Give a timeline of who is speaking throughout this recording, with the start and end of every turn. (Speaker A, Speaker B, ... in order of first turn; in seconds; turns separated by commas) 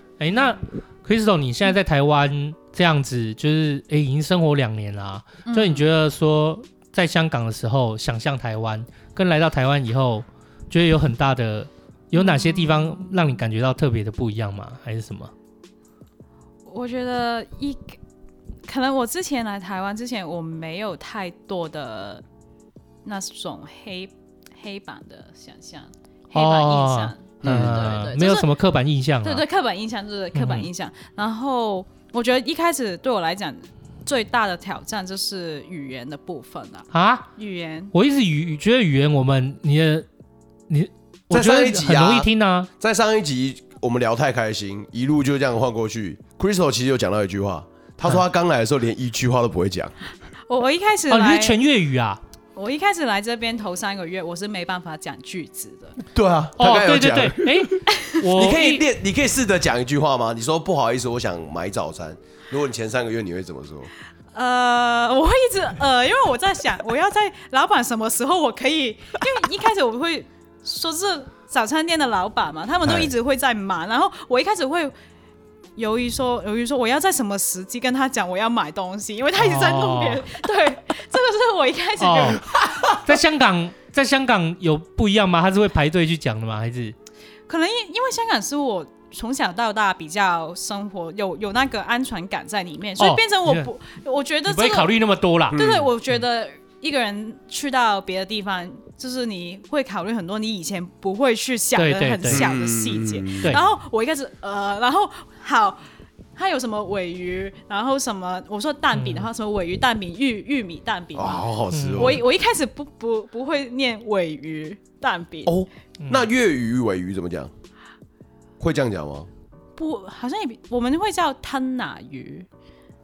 Speaker A: 0.2-15.3, Speaker B: 5.5-5.9, Speaker B: 12.2-13.4, Speaker B: 16.7-17.9, Speaker B: 18.7-22.2, Speaker B: 23.1-28.5, Speaker A: 26.3-29.4, Speaker C: 27.4-28.0, Speaker B: 29.2-37.9, Speaker A: 30.3-30.7, Speaker A: 36.9-37.3, Speaker A: 37.9-40.1, Speaker A: 40.7-42.7, Speaker C: 41.3-42.3, Speaker C: 42.8-49.9, Speaker B: 50.5-51.6, Speaker A: 51.1-52.2, Speaker B: 52.6-56.0, Speaker C: 56.1-57.8, Speaker A: 56.6-58.9, Speaker C: 58.3-63.9, Speaker B: 64.3-74.9, Speaker C: 72.8-73.1, Speaker B: 75.8-82.5, Speaker A: 79.4-80.3, Speaker A: 82.0-82.4, Speaker C: 82.6-83.0, Speaker A: 82.9-87.0, Speaker B: 87.5-94.9, Speaker A: 93.0-93.7, Speaker A: 94.5-95.6, Speaker C: 95.5-95.9, Speaker B: 95.5-105.8, Speaker A: 101.8-102.5, Speaker C: 102.3-103.6, Speaker B: 106.4-115.5, Speaker A: 108.9-109.3, Speaker C: 111.2-112.2, Speaker A: 111.7-112.2, Speaker C: 115.5-117.5, Speaker A: 116.0-116.3, Speaker C: 118.6-119.3, Speaker B: 119.8-122.5